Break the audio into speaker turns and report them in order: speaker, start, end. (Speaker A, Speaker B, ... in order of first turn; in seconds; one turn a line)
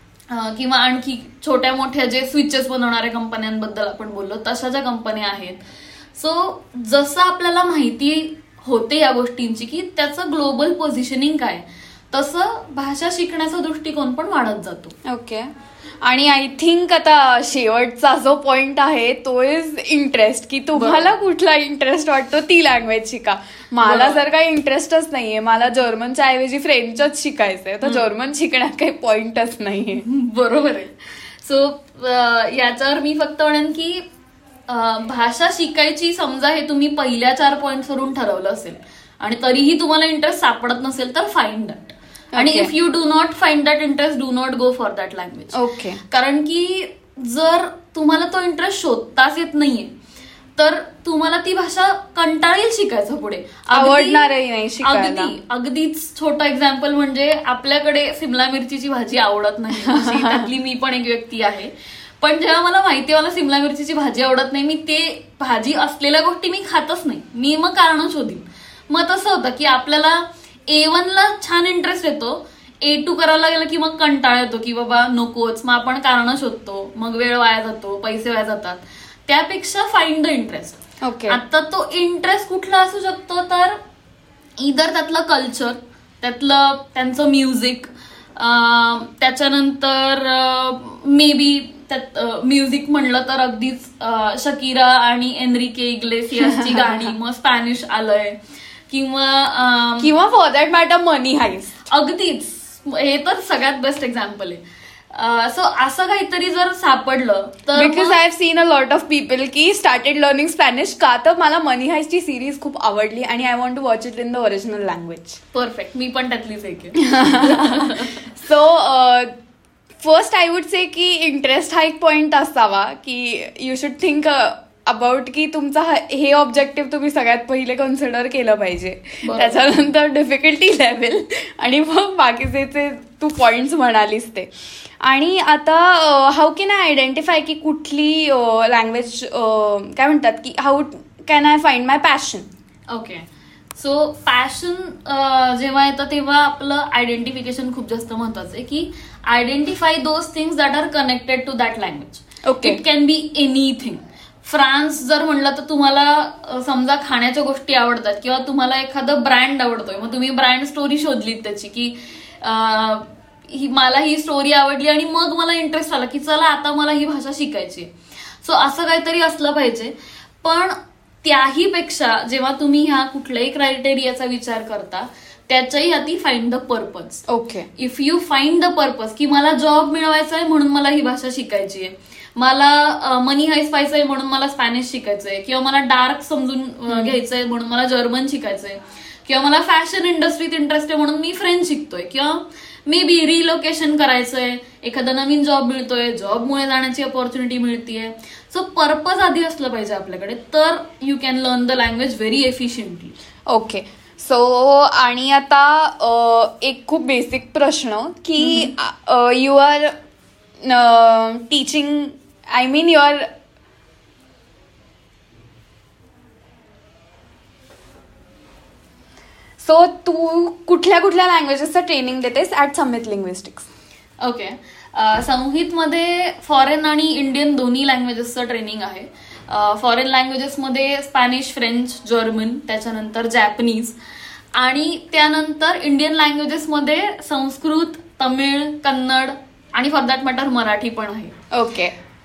Speaker A: 0.3-5.6
Speaker A: 6.2-14.9
Speaker B: 15.1-15.5
Speaker B: 16.0-30.0
Speaker A: 20.7-21.1
Speaker A: 23.8-24.2
Speaker A: 27.8-28.1
Speaker A: 30.0-34.0
Speaker A: 34.7-45.5
Speaker B: 42.3-42.7
Speaker B: 45.5-46.0
Speaker A: 46.1-49.9
Speaker A: 50.6-54.3
Speaker B: 53.7-55.3
Speaker A: 54.8-83.8
Speaker B: 59.8-60.5
Speaker B: 81.0-81.4
Speaker A: 84.6-98.4
Speaker B: 96.4-97.1
Speaker A: 98.9-100.1
Speaker B: 100.0-101.8
Speaker A: 101.9-104.6
Speaker A: 105.1-108.2
Speaker B: 107.7-115.4
Speaker A: 115.5-118.3
Speaker B: 117.0-119.3
Speaker B: 120.0-134.5
Speaker A: 129.2-129.7
Speaker B: 135.0-142.4
Speaker A: 142.9-167.9
Speaker B: 152.4-152.8
Speaker A: 168.4-177.2
Speaker B: 177.3-177.7
Speaker A: 177.8-203.1
Speaker B: 186.9-187.1
Speaker B: 203.5-209.9
Speaker A: 208.4-208.7
Speaker B: 210.6-213.3
Speaker B: 219.6-223.7
Speaker A: 224.2-233.9
Speaker A: 234.6-241.3
Speaker B: 241.5-241.9